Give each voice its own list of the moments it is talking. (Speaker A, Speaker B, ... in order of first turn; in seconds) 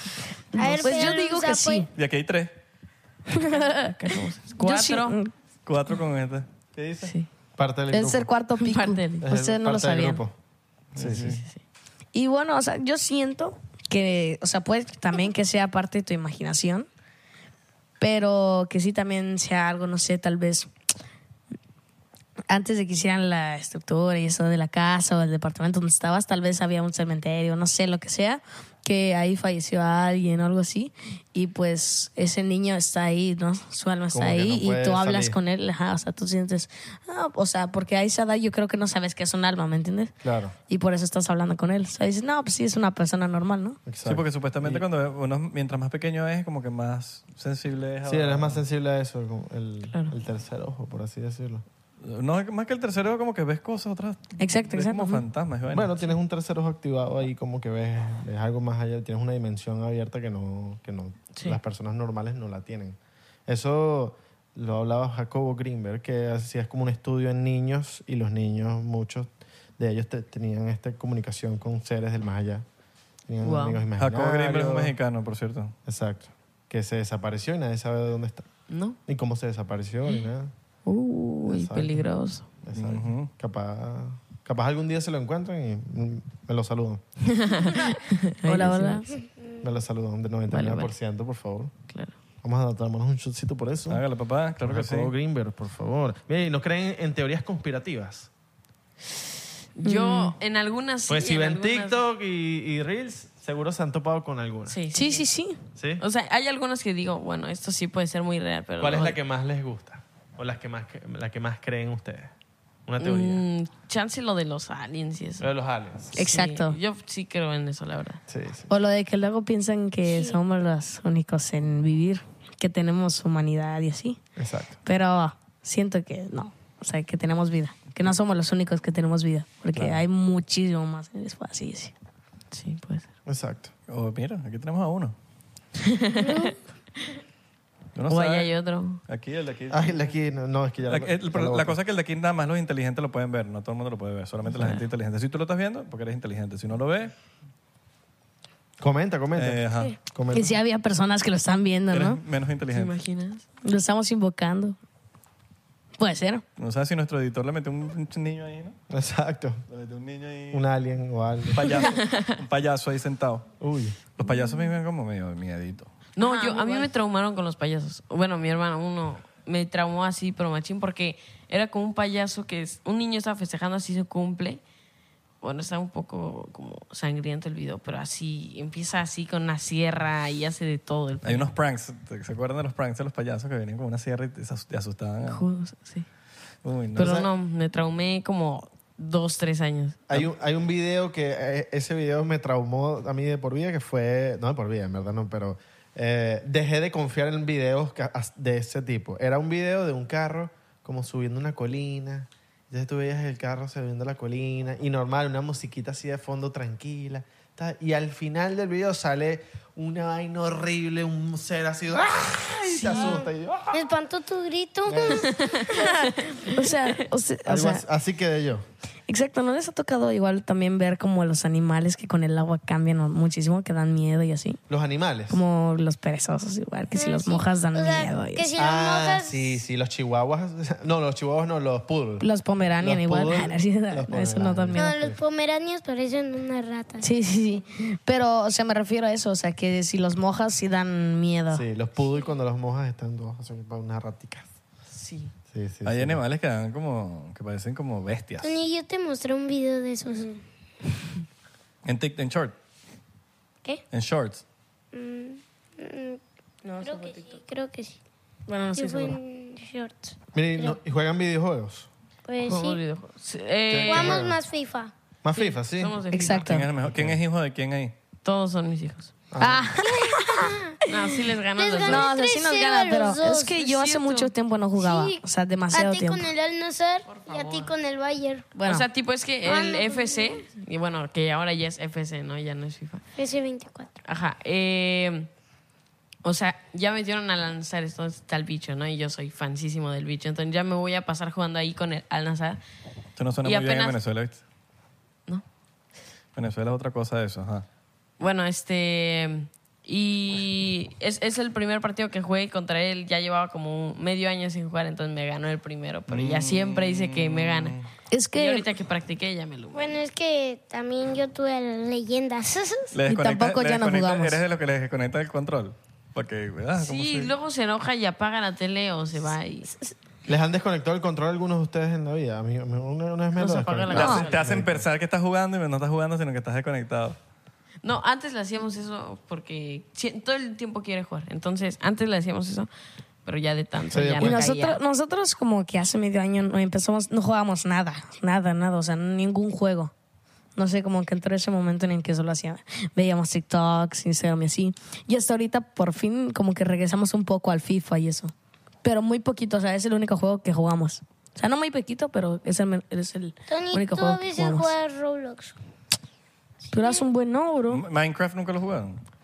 Speaker A: 0.5-1.9, 3.4-3.9, 4.6-5.3, 7.9-10.2, 12.1-16.9, 18.0-20.7, 22.5-40.1, 40.7-43.8, 54.4-55.2, 87.8-89.1, 99.8-100.3, 104.9-105.6, 116.2-116.8, 118.7-124.2, 124.8-131.9, 150.3-152.2, 153.6-154.8, 156.0-156.4, 166.2-166.9, 212.9-213.2, 215.7-217.8, 219.1-224.6, 225.3-228.5, 232.2-234.9, 237.0-241.6, 256.6-257.4, 258.5-259.2, 266.1-266.7, 269.4-270.5, 271.8-276.3, 278.6-278.9, 308.1-308.7, 313.1-314.4, 323.9-324.2, 334.2-339.9, 340.6-348.3, 348.8-354.7, 356.7-357.8
Speaker B: 0.6-1.9, 120.0-120.4, 136.2-136.5, 213.7-215.6, 226.9-229.5, 234.8-237.1, 248.4-250.4, 254.9-256.2, 256.8-258.0, 258.8-260.8, 262.3-262.8, 263.9-264.9, 269.8-270.8, 271.6-273.6, 274.8-275.2, 275.7-278.5, 279.4-280.4, 283.2-283.9, 309.7-312.9, 353.5-355.6, 356.7-357.1
Speaker C: 1.9-2.5, 5.7-7.1, 10.9-11.4, 44.1-48.6, 52.0-56.0, 74.0-75.8, 82.7-83.3, 93.9-95.1, 133.9-135.2, 138.0-138.5, 139.1-140.1, 140.9-147.1, 149.3-149.9, 151.9-152.9, 156.6-158.8, 159.7-160.7, 161.5-163.5, 164.2-165.9, 181.2-185.4, 186.6-187.2, 245.8-248.5, 251.9-252.5, 253.9-254.4, 266.4-267.9, 293.2-294.4, 296.4-297.7, 306.1-307.9, 312.9-317.3, 323.9-327.2, 357.7-359.0
Speaker D: 3.8-5.2, 7.0-7.3, 8.6-9.2, 11.2-11.6, 61.4-61.6, 73.4-73.8, 78.7-79.0, 80.9-82.5, 87.3-89.0, 90.5-90.9, 99.8-102.0, 104.7-105.2, 106.0-109.2, 113.0-115.5, 116.1-118.2, 132.5-133.1, 135.8-136.5, 138.1-139.0, 152.7-153.4, 161.9-162.4, 166.2-174.6, 175.4-181.5, 185.3-186.1, 187.0-190.0, 215.2-216.5, 244.9-245.3, 262.4-264.2, 265.3-266.5, 268.2-269.1, 270.9-272.1, 273.6-274.3, 277.1-277.7, 278.6-283.0, 284.1-285.3, 286.2-292.6, 293.4-294.0, 298.2-307.8, 308.4-310.0, 316.8-319.7, 323.4-324.4, 327.8-332.7, 333.2-334.8
Speaker E: 7.6-8.3, 9.2-10.3, 11.0-11.4, 34.1-35.4, 40.2-40.6, 43.9-44.9, 48.0-51.6, 55.7-72.7, 73.3-75.0, 75.9-78.5, 79.1-80.5, 81.5-82.1, 82.6-87.0, 89.6-91.7, 92.4-94.0, 94.6-98.3, 101.1-104.8, 105.8-106.0, 108.8-112.3, 112.9-113.4, 115.4-116.2, 118.3-118.7, 124.4-124.8, 129.8-130.0, 133.3-133.7, 139.7-141.8, 148.8-150.6, 158.9-159.6, 160.5-161.8, 163.6-164.0, 187.0-187.3, 190.1-213.8, 214.9-215.3, 217.4-218.7, 224.7-225.4, 228.6-232.3, 232.8-235.2, 241.5-244.5, 245.5-246.2, 260.3-261.9, 263.7-264.4, 265.2-266.0, 266.8-267.2, 269.3-269.7, 320.3-324.9, 333.9-334.5